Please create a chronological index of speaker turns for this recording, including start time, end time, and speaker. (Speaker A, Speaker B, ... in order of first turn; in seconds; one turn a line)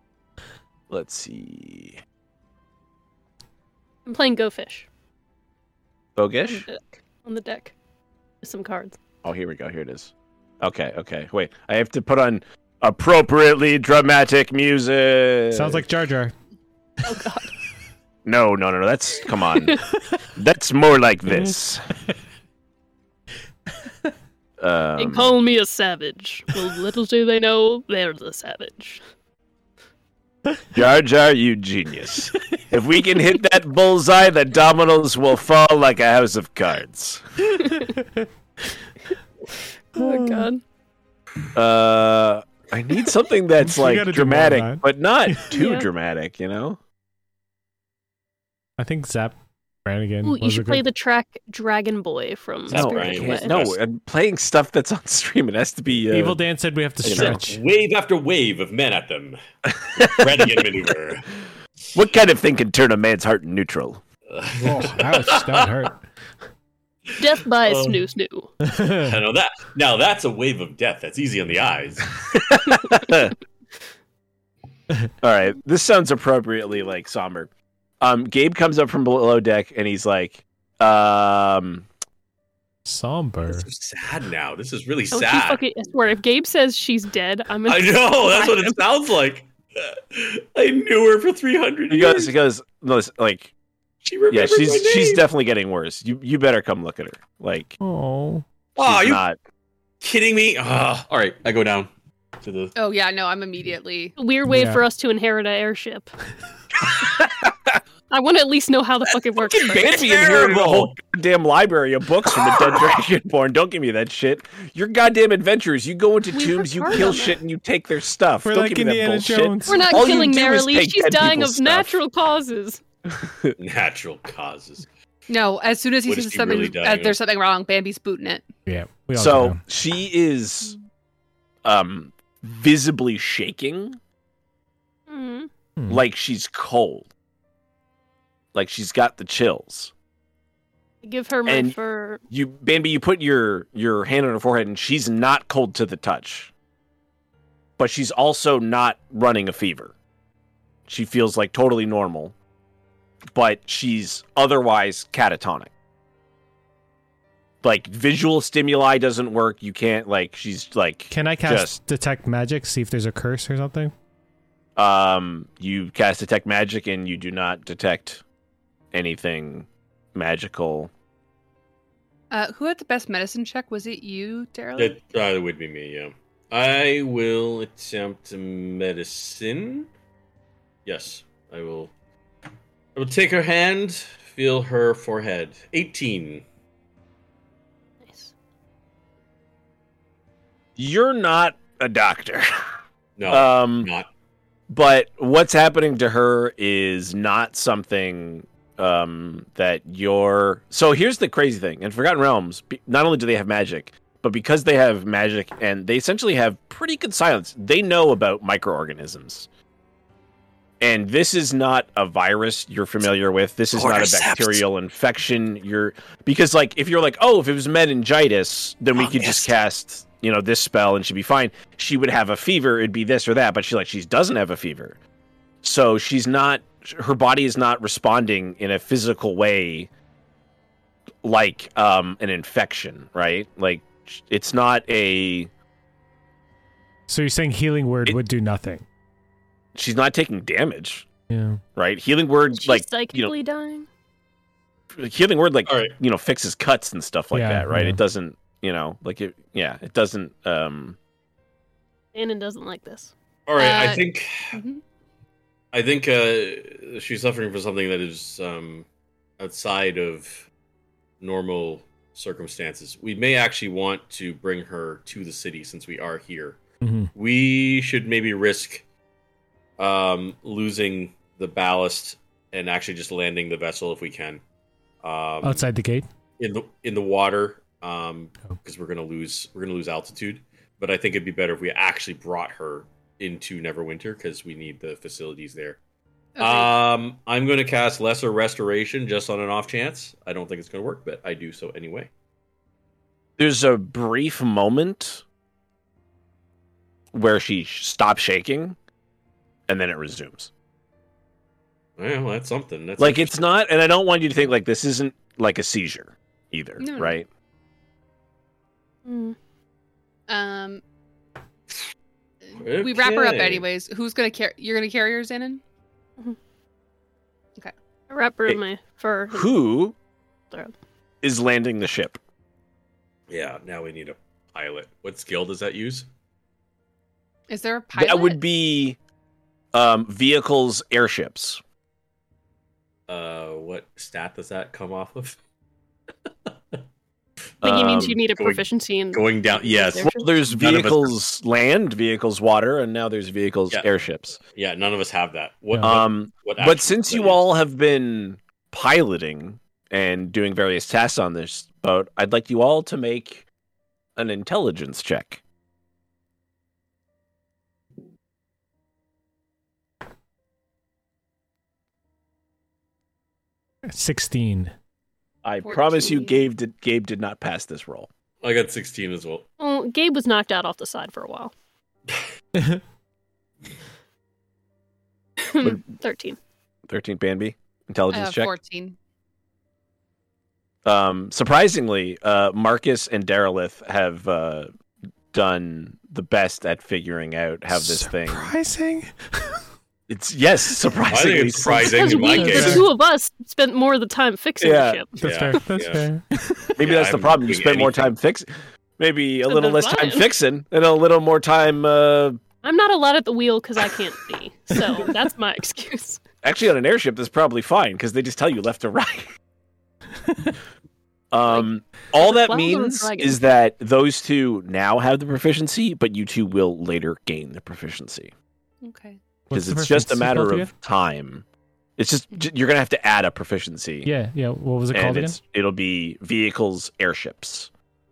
Speaker A: 0.9-2.0
Speaker B: 4.0-4.9
Speaker A: 6.2-6.7
Speaker B: 6.5-7.7
Speaker B: 8.4-9.0
Speaker A: 9.2-15.8
Speaker C: 15.5-16.3
Speaker B: 17.1-17.5
Speaker A: 18.2-19.8
Speaker A: 20.3-21.9
Speaker A: 24.6-25.3
Speaker B: 25.0-29.0
Speaker A: 30.7-37.5
Speaker C: 37.5-38.2
Speaker B: 40.0-40.6
Speaker C: 40.0-40.5
Speaker A: 41.5-46.8
Speaker C: 43.6-45.5
Speaker B: 45.5-45.9
Speaker C: 48.8-50.8
Speaker B: 50.2-53.5
Speaker D: 52.7-53.8
Speaker A: 52.7-56.4
Speaker C: 56.1-57.6
Speaker A: 57.0-57.4
Speaker D: 57.0-59.4
Speaker A: 59.9-60.6
Speaker D: 60.0-61.3
Speaker A: 61.9-64.0
Speaker D: 64.3-65.9
Speaker C: 64.6-66.0
Speaker B: 67.2-68.5
Speaker D: 67.6-68.0
Speaker C: 68.6-69.1
Speaker D: 69.0-72.1
Speaker A: 72.3-73.3
Speaker A: 75.2-77.5
Speaker A: 78.0-81.8
Speaker C: 82.8-83.7
Speaker D: 83.5-85.6
Speaker B: 85.1-88.7
Speaker D: 87.7-92.3
Speaker A: 91.9-93.5
Speaker D: 94.0-95.3
Speaker A: 94.3-97.8
Speaker C: 97.8-98.4
Speaker D: 98.8-99.2
Speaker A: 98.8-99.4
Speaker D: 100.0-101.9
Speaker D: 102.4-102.7
Speaker E: 102.8-104.1
Speaker B: 104.2-106.1
Speaker C: 104.5-104.8
Speaker A: 106.9-107.8
Speaker B: 108.1-110.0
Speaker D: 109.5-111.0
Speaker A: 109.5-122.0
Speaker B: 116.3-117.4
Speaker C: 118.4-120.1
Speaker B: 119.7-122.8
Speaker A: 123.1-123.5
Speaker D: 123.6-124.8
Speaker E: 125.3-128.4
Speaker D: 126.0-127.2
Speaker C: 128.7-129.6
Speaker A: 129.1-130.8
Speaker A: 131.6-134.0
Speaker B: 135.1-135.5
Speaker C: 135.8-136.0
Speaker A: 135.9-137.1
Speaker A: 138.5-139.9
Speaker B: 141.0-142.2
Speaker A: 141.4-141.8
Speaker A: 142.3-146.5
Speaker A: 147.8-149.9
Speaker A: 150.9-152.3
Speaker A: 153.3-155.7
Speaker A: 157.6-161.8
Speaker C: 161.1-163.9
Speaker A: 164.8-168.2
Speaker A: 168.9-170.9
Speaker E: 172.3-175.0
Speaker D: 174.8-179.9
Speaker D: 180.8-181.9
Speaker D: 182.9-186.4
Speaker B: 188.0-188.3
Speaker A: 190.8-192.5
Speaker D: 193.2-194.1
Speaker A: 193.3-193.9
Speaker A: 194.7-209.5
Speaker A: 210.8-225.0
Speaker D: 213.7-214.6
Speaker D: 218.9-219.5
Speaker A: 225.6-229.9
Speaker A: 231.2-235.5
Speaker C: 237.1-238.8
Speaker A: 239.7-241.1
Speaker C: 241.3-241.6
Speaker A: 241.8-243.3
Speaker B: 242.5-243.9
Speaker A: 244.9-251.0
Speaker D: 245.7-246.0
Speaker C: 247.3-248.0
Speaker B: 252.1-253.1
Speaker D: 253.5-254.6
Speaker E: 253.6-254.8
Speaker D: 255.7-258.9
Speaker D: 259.4-260.4
Speaker D: 261.2-266.6
Speaker C: 266.8-267.1
Speaker D: 267.1-268.8
Speaker D: 269.8-274.4
Speaker D: 275.0-275.7
Speaker C: 275.4-276.1
Speaker D: 276.4-285.8
Speaker E: 286.4-286.7
Speaker D: 286.4-292.1
Speaker A: 293.4-295.2
Speaker A: 297.1-298.8
Speaker A: 299.7-300.5
Speaker D: 302.0-303.4
Speaker A: 303.0-307.3
Speaker E: 306.8-307.1
Speaker B: 309.1-309.4
Speaker E: 310.3-310.8
Speaker E: 312.5-315.6
Speaker D: 312.6-313.6
Speaker B: 318.1-319.5
Speaker A: 319.3-319.9
Speaker A: 321.2-322.2
Speaker D: 323.3-326.1
Speaker E: 327.5-328.4
Speaker A: 327.9-329.0
Speaker A: 329.7-331.6
Speaker D: 333.1-335.4
Speaker A: 337.6-338.2
Speaker B: 337.6-340.3
Speaker D: 337.9-341.1
Speaker A: 340.0-344.4
Speaker D: 344.5-347.4
Speaker A: 345.8-353.4
Speaker A: 354.1-355.4
Speaker C: 363.9-364.7
Speaker A: 365.4-368.1
Speaker E: 365.6-366.4
Speaker D: 368.4-369.5
Speaker B: 369.6-371.5
Speaker C: 372.6-372.8
Speaker B: 375.4-376.4
Speaker A: 376.9-378.5
Speaker E: 378.1-378.9
Speaker A: 380.8-384.7
Speaker A: 385.3-388.5
Speaker C: 387.7-389.6
Speaker A: 390.1-392.4
Speaker D: 391.1-392.9
Speaker B: 391.8-395.1
Speaker C: 392.3-392.9
Speaker A: 394.6-395.0
Speaker C: 395.2-396.8
Speaker D: 395.2-396.1
Speaker D: 396.8-398.1
Speaker A: 396.8-402.4
Speaker B: 399.4-400.3
Speaker B: 402.6-406.2
Speaker A: 406.4-409.3
Speaker C: 410.3-410.5
Speaker A: 411.3-418.3
Speaker B: 411.4-413.4
Speaker E: 418.8-419.2
Speaker C: 419.5-420.7
Speaker A: 419.5-421.4
Speaker A: 422.0-424.1
Speaker C: 424.0-425.4
Speaker A: 424.9-427.7